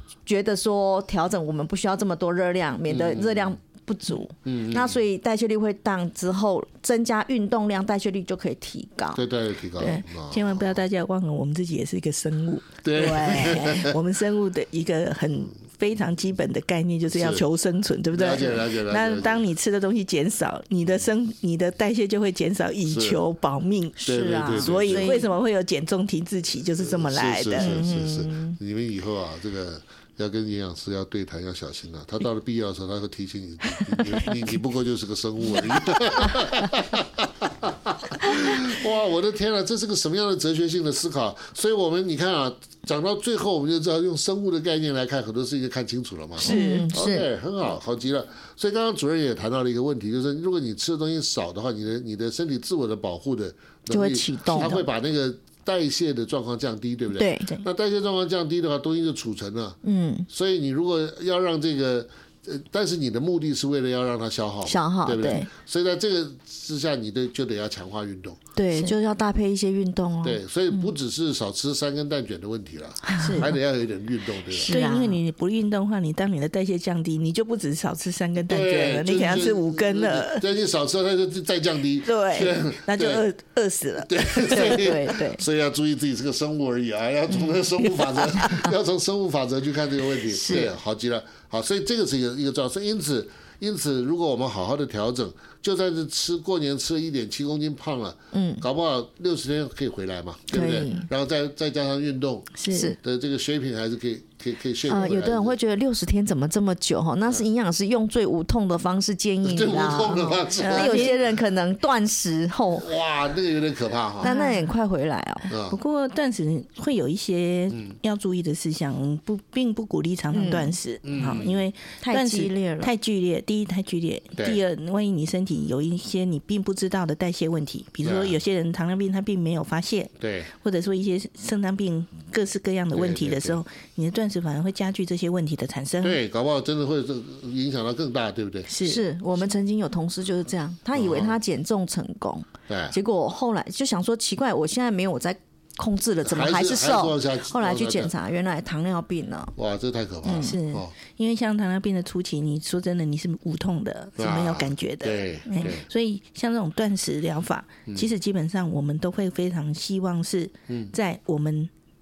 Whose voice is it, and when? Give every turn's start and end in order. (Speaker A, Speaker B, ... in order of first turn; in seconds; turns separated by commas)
Speaker A: 0.2-9.2, Speaker B: 2.9-3.5, Speaker B: 4.4-5.0, Speaker B: 9.1-10.8, Speaker C: 9.8-27.8, Speaker B: 12.8-13.9, Speaker A: 12.9-13.7, Speaker B: 17.1-17.4, Speaker B: 18.1-19.4, Speaker B: 22.9-23.2, Speaker A: 24.0-25.2, Speaker B: 24.1-25.2, Speaker B: 26.8-59.8, Speaker A: 27.5-28.6, Speaker A: 46.4-47.3, Speaker C: 46.4-46.9, Speaker A: 53.9-54.8, Speaker A: 57.1-57.5, Speaker A: 59.8-60.3, Speaker B: 60.3-68.4, Speaker A: 64.7-65.5, Speaker A: 68.5-70.9, Speaker B: 70.2-74.7, Speaker A: 73.1-73.4, Speaker C: 73.2-73.5, Speaker A: 74.5-75.2, Speaker C: 74.7-80.4, Speaker B: 78.5-83.2, Speaker C: 82.0-84.8, Speaker B: 84.0-105.6, Speaker A: 84.5-85.4, Speaker A: 90.3-90.7, Speaker A: 98.3-98.6, Speaker A: 100.5-101.1, Speaker C: 102.6-102.9, Speaker A: 102.7-103.0, Speaker A: 104.8-112.8, Speaker B: 109.4-111.2, Speaker C: 110.6-111.2, Speaker B: 112.8-114.3, Speaker A: 114.2-115.5, Speaker C: 114.2-114.6, Speaker B: 115.5-115.8, Speaker C: 115.7-136.2, Speaker A: 120.3-120.8, Speaker B: 121.0-121.6, Speaker A: 122.0-122.9, Speaker B: 128.0-128.4, Speaker B: 130.2-130.5, Speaker B: 132.9-133.6, Speaker B: 136.0-138.7, Speaker C: 138.7-139.0, Speaker A: 138.8-149.5, Speaker B: 140.9-141.3, Speaker B: 142.7-142.9, Speaker B: 146.2-148.1, Speaker B: 149.6-150.9, Speaker A: 150.2-150.5, Speaker C: 150.4-161.7, Speaker B: 154.2-155.8, Speaker A: 155.4-155.7, Speaker B: 160.7-160.9